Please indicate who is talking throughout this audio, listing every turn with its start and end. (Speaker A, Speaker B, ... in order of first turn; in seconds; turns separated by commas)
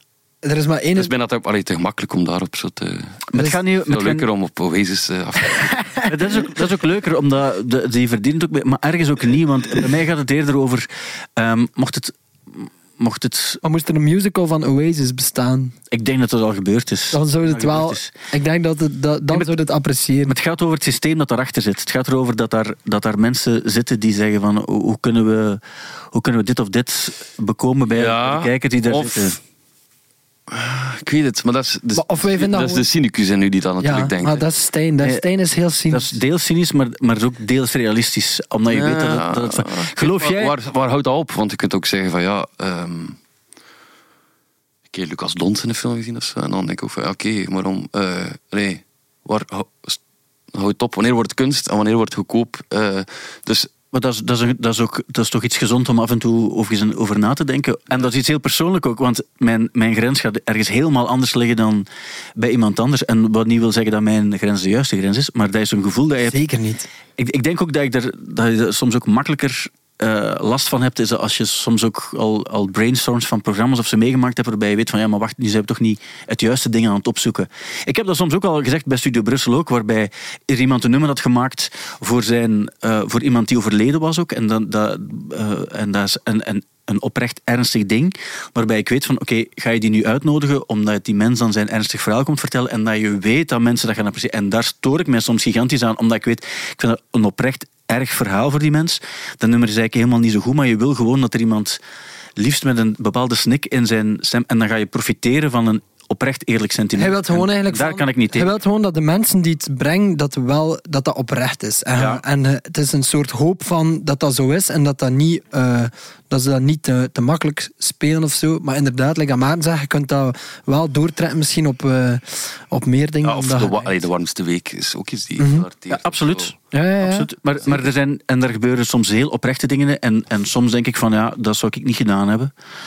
Speaker A: 0.4-1.1, Speaker B: 1.0-5.9, Speaker C: 3.3-4.2, Speaker A: 5.7-6.1, Speaker C: 6.1-13.6, Speaker A: 13.6-15.8, Speaker C: 15.9-18.1, Speaker A: 17.1-20.3, Speaker C: 20.3-29.4, Speaker B: 27.9-29.4, Speaker B: 30.5-34.5, Speaker A: 31.9-32.9, Speaker A: 33.8-36.1, Speaker C: 35.9-40.5, Speaker B: 38.7-43.2, Speaker B: 44.9-50.0, Speaker B: 50.5-53.7, Speaker C: 53.9-66.4, Speaker A: 66.3-66.9, Speaker C: 67.2-101.8, Speaker C: 102.4-108.5, Speaker A: 107.0-123.9, Speaker C: 112.0-112.2, Speaker B: 123.2-126.5, Speaker A: 125.4-125.7, Speaker C: 125.9-132.5, Speaker A: 126.7-127.3